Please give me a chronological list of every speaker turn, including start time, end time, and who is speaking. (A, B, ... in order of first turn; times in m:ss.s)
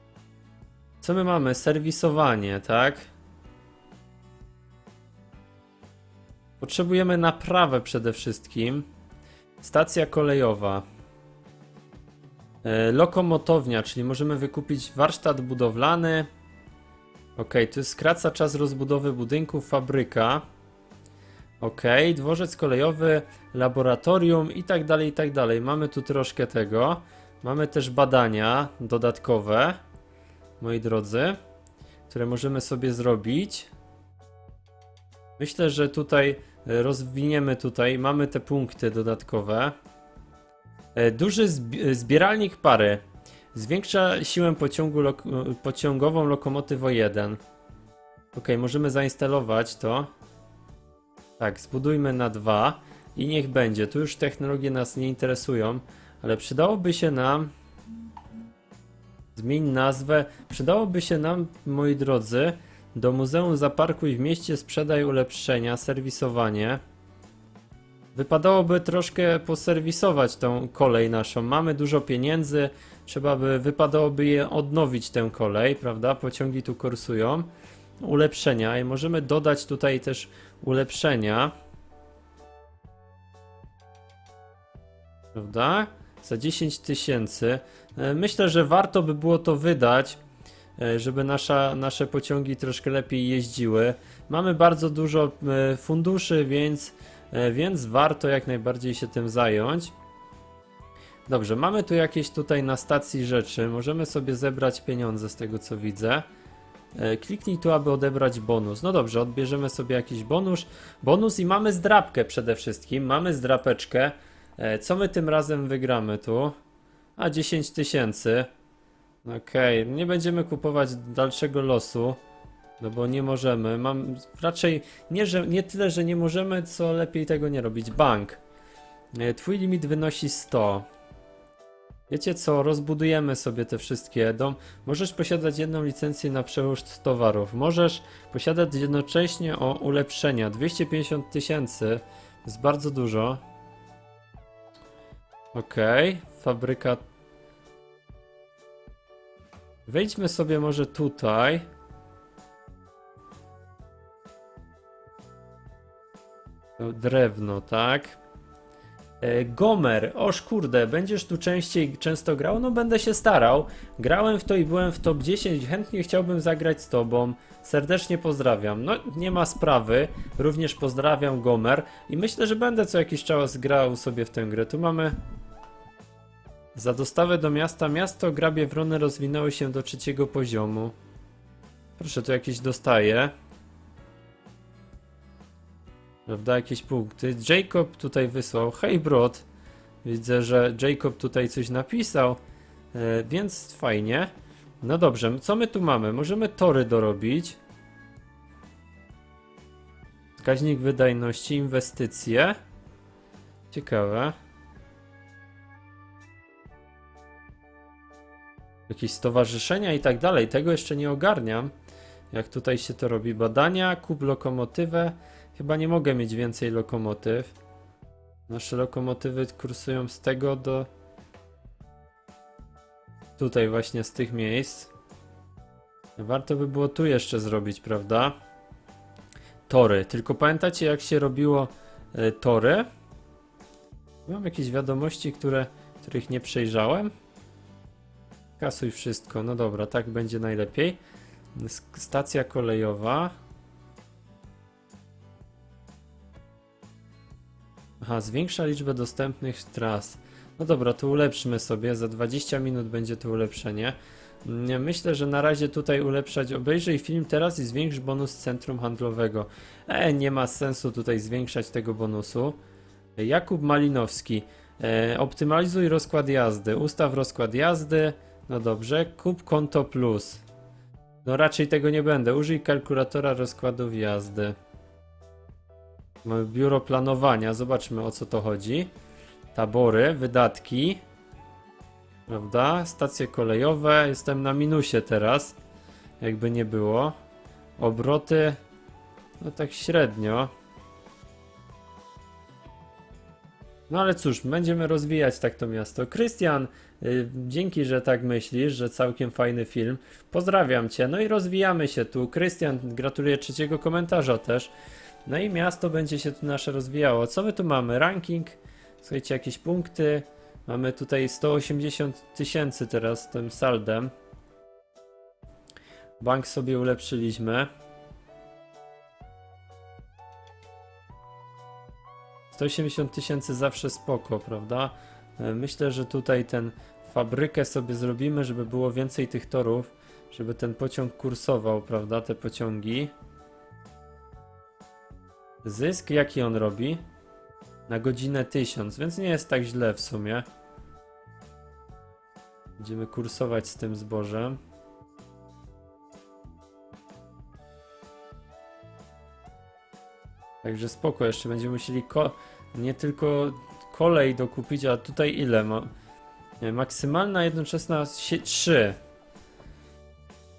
0:01.0-0:03.1 A
0:06.6-0:08.9 A
0:09.6-0:10.8 A
0:12.6-0:16.3 A
0:17.4-0:20.4 A
0:21.6-0:29.8 A
0:30.6-0:31.4 A
0:32.1-0:33.7 A
0:35.4-0:39.7 A
0:40.9-0:43.0 A
0:43.5-0:47.4 A
0:48.3-0:50.1 A
0:51.4-0:57.5 A
0:59.3-1:06.8 A
1:08.1-1:17.5 A
1:18.0-1:21.5 A
1:25.3-1:30.2 A
1:30.8-1:39.9 A
1:41.3-1:46.2 A
1:46.9-1:56.5 A
1:57.2-1:58.5 A
1:59.2-2:02.2 A
2:02.8-2:08.4 A
2:09.1-2:10.9 A
2:12.1-2:23.4 A
2:25.5-2:27.0 A
2:29.9-2:31.6 A
2:36.8-2:38.2 A
2:39.2-2:55.2 A
2:56.7-3:00.9 A
3:02.0-3:03.3 A
3:06.3-3:09.4 A
3:10.0-3:12.4 A
3:12.9-3:14.3 A
3:14.8-3:17.6 A
3:20.4-3:22.6 A
3:23.7-3:24.3 A
3:28.9-3:31.7 A
3:32.3-3:37.5 A
3:38.5-3:40.9 A
3:43.4-3:44.9 A
3:46.2-3:48.4 A
3:49.7-3:52.9 A
3:54.2-3:57.1 A
3:58.6-4:01.0 A
4:01.5-4:03.3 A
4:08.0-4:22.6 A
4:23.2-4:30.4 A
4:31.2-4:34.5 A
4:36.2-4:38.9 A
4:39.5-4:41.0 A
4:42.3-4:45.6 A
4:46.2-4:47.1 A
4:47.8-4:48.6 A
4:49.4-4:50.5 A
4:53.9-5:04.7 A
5:05.2-5:14.1 A
5:16.2-5:17.7 A
5:22.5-5:33.1 A
5:35.6-5:37.0 A
5:37.9-5:40.4 A
5:42.8-5:44.6 A
5:50.6-5:55.9 A
5:56.6-5:59.0 A